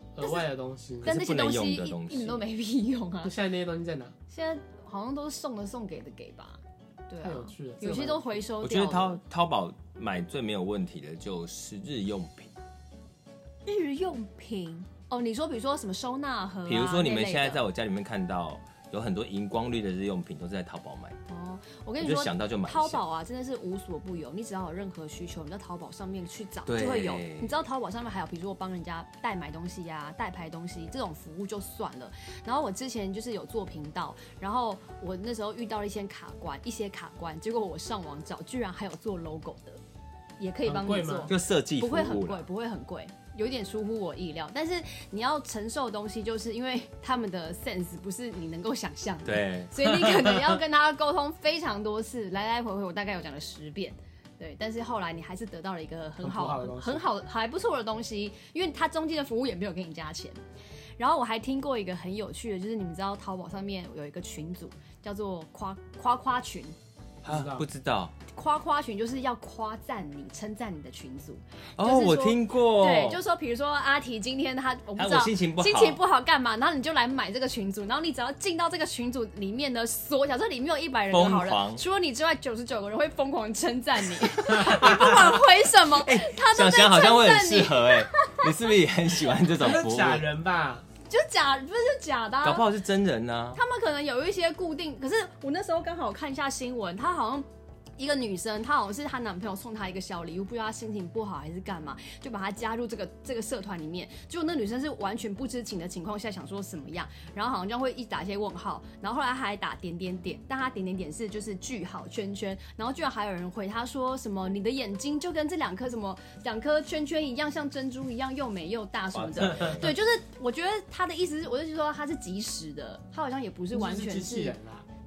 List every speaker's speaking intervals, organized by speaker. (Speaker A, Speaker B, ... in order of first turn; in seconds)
Speaker A: 0.2-1.1, 3.2-4.1, 7.2-8.4, 40.6-41.3, 56.2-57.1, 67.2-67.7, 84.6-85.0, 89.5-90.9, 123.7-124.9
Speaker B: 0.2-0.5, 1.0-3.3, 4.3-9.2, 13.7-17.6, 21.3-39.8, 40.4-60.4, 61.0-66.8, 68.3-88.5, 91.1-92.7, 93.5-124.6
Speaker C: 1.0-2.4, 8.6-12.5, 16.7-21.2, 22.0-23.0, 26.7-27.6, 41.3-42.5, 49.2-50.4, 67.2-68.1, 71.8-73.2, 75.0-76.0, 81.1-81.8, 84.5-90.3, 92.4-93.6, 119.1-120.0